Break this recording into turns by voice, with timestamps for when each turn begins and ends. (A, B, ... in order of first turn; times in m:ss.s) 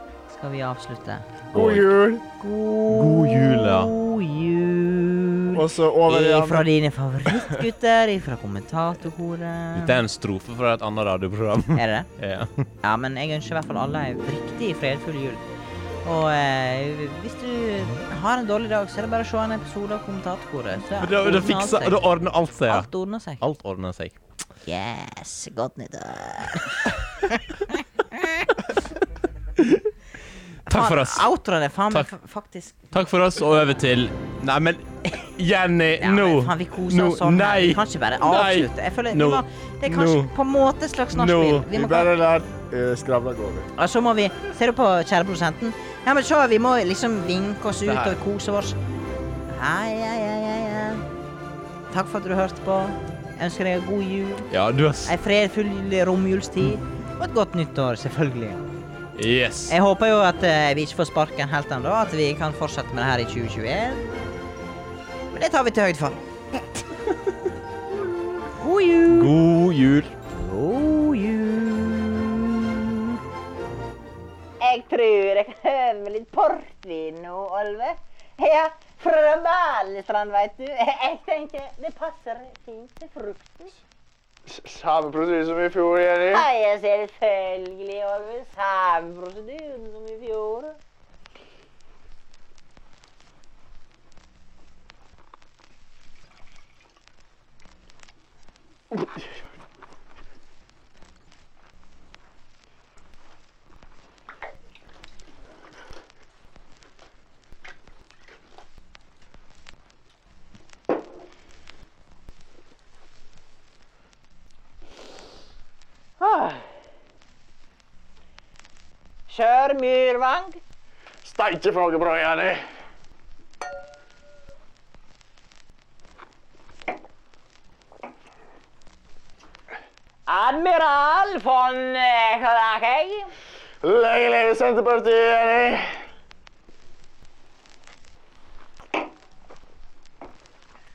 0:00.3-0:01.3 A
0:01.5-0:02.2 B
0:01.5-0:01.9 C
0:02.4-0:10.0 A
0:02.9-0:03.9 C
0:05.5-0:06.7 B
0:07.3-0:07.6 B
0:09.8-0:12.6 C
0:11.7-0:12.1 A
0:12.8-0:15.4 A
0:16.0-0:22.0 A
0:21.0-0:24.2 C
0:22.7-0:23.4 A
0:24.6-0:28.5 A
0:29.6-0:29.9 C
0:30.7-0:31.3 C
0:30.7-0:32.8 A
0:32.9-0:40.3 C
0:36.0-0:42.1 A
0:41.1-0:41.7 C
0:41.6-0:43.7 B
0:43.8-0:48.8 A
0:47.8-0:48.2 C
0:49.5-0:51.0 A
0:51.9-0:54.5 A
0:54.5-0:55.1 C
0:55.0-0:58.6 A
0:59.2-0:59.7 C
0:59.7-1:04.1 A
1:05.3-1:06.8 A
1:08.6-1:09.3 A
1:09.1-1:10.1 C
1:10.3-1:13.2 A
1:14.6-1:23.7 D
1:24.5-1:26.5 E
1:26.3-1:30.8 D
1:56.2-1:56.6 D
1:59.3-2:00.6 D
2:01.2-2:02.6 E
2:10.3-2:13.3 D
2:13.8-2:15.8 E